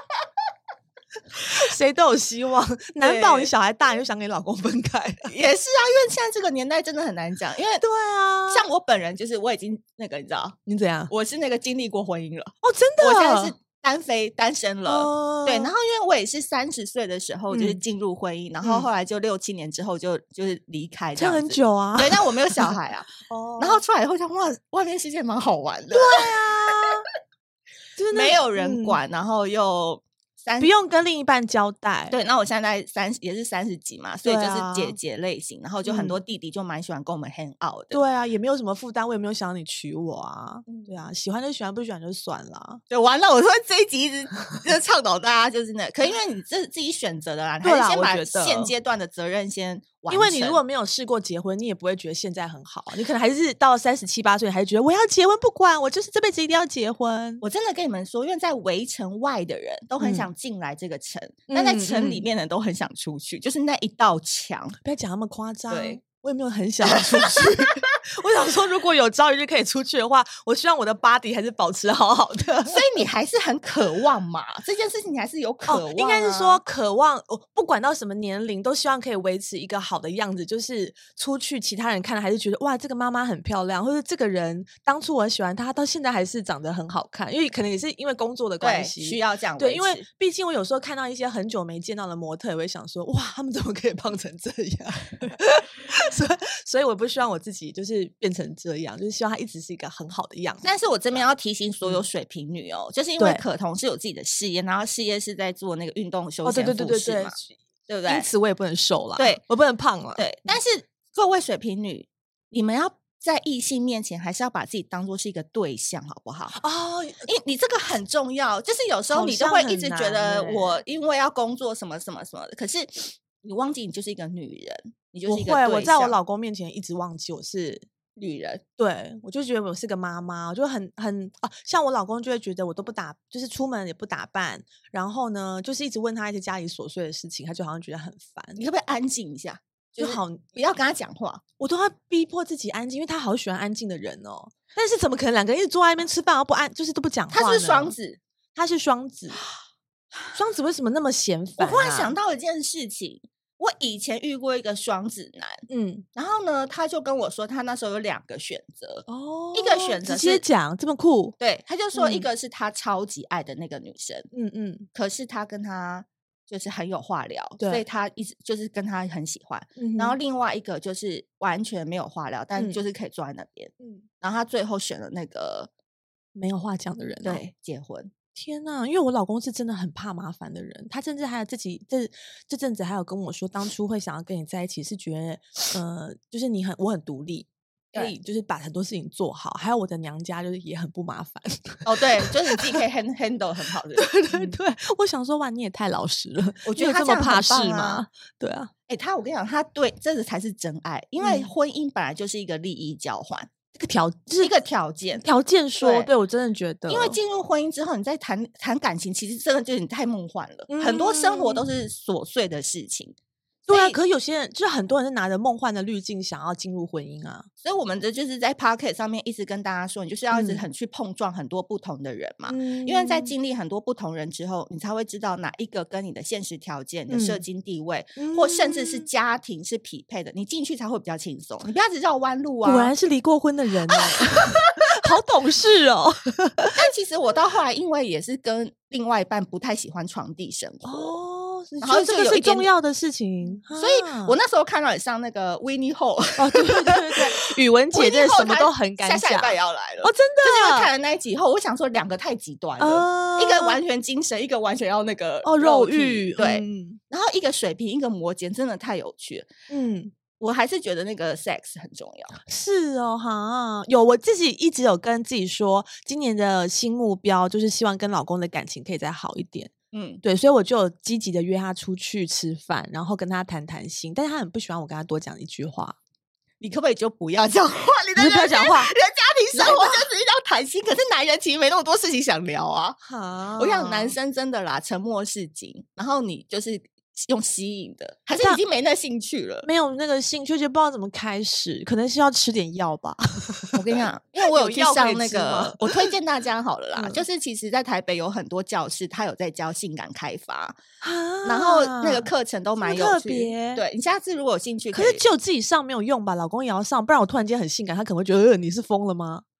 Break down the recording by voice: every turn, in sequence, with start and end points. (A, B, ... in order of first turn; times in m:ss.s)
0:01.4-0:05.3 A
0:03.0-0:03.5 B
0:05.2-0:07.8 B
0:07.8-0:08.6 A
0:08.5-0:10.6 B
0:10.6-0:11.1 A
0:11.1-0:26.3 B
0:12.6-0:13.5 A
0:14.8-0:15.7 A
0:17.5-0:17.8 A
0:21.2-0:23.8 A
0:25.9-0:27.0 A
0:28.0-0:29.0 A
0:28.1-0:30.7 B
0:30.6-0:32.1 A
0:32.1-0:38.0 B
0:34.2-0:35.0 A
0:35.8-0:36.2 A
0:37.9-0:42.8 A
0:42.9-0:50.6 B
0:47.6-0:48.7 A
0:50.1-0:57.4 A
0:57.4-1:04.8 B
1:00.0-1:00.3 A
1:01.5-1:02.2 A
1:04.8-1:12.8 A
1:05.7-1:06.0 B
1:07.0-1:07.5 B
1:12.7-1:16.6 B
1:15.7-1:40.6 A
1:28.6-1:30.0 B
1:40.6-1:47.4 B
1:43.2-1:43.4 A
1:46.4-1:47.6 A
1:47.9-1:48.2 B
1:48.1-1:50.5 A
1:50.2-1:56.6 B
1:56.5-1:57.3 A
1:57.2-2:06.1 B
1:59.1-2:00.8 A
2:05.3-2:07.8 A
2:08.2-2:08.6 B
2:08.8-2:18.6 A
2:18.5-2:21.4 B
2:20.0-2:20.5 A
2:21.6-2:27.9 A
2:27.3-2:28.2 B
2:28.6-2:29.4 A
2:30.3-2:32.1 A
2:31.6-2:35.6 B
2:35.7-2:36.0 A
2:36.1-2:40.4 B
2:39.1-2:41.3 A
2:41.4-2:44.3 B
2:41.9-2:42.3 A
2:44.3-2:44.9 A
2:44.9-2:55.7 B
2:49.8-2:50.2 A
2:56.3-2:57.4 A
2:57.2-2:58.1 B
2:58.3-3:12.7 A
3:11.8-3:14.6 B
3:14.0-3:18.7 A
3:16.6-3:18.0 B
3:18.9-3:23.5 B
3:21.2-3:21.5 A
3:23.7-3:24.5 A
3:24.4-3:25.2 B
3:25.2-3:27.2 A
3:25.8-3:26.1 B
3:26.9-3:33.1 B
3:30.7-3:31.6 A
3:33.7-3:34.0 B
3:33.7-3:37.5 A
3:37.6-3:52.9 B
3:40.3-3:40.6 A
3:42.5-3:43.3 A
3:47.1-3:47.4 A
3:48.2-3:49.0 A
3:52.6-3:56.8 A
3:54.1-3:54.6 B
3:56.7-4:01.2 B
4:00.8-4:04.4 A
4:01.8-4:02.7 B
4:03.7-4:19.5 B
4:06.4-4:10.9 A
4:12.8-4:13.8 A
4:15.4-4:17.0 A
4:19.7-4:20.1 A
4:20.4-4:22.4 B
4:22.4-4:36.0 A
4:29.9-4:30.2 B
4:36.6-4:43.0 B
4:38.2-4:38.9 A
4:39.5-4:40.0 A
4:43.0-4:44.1 A
4:43.6-4:49.7 B
4:49.6-4:53.8 A
4:53.7-5:00.8 B
4:54.4-4:56.1 A
4:57.0-4:57.2 A
5:01.0-5:02.3 A
5:01.4-5:05.2 B
5:02.8-5:03.8 A
5:04.9-5:09.4 A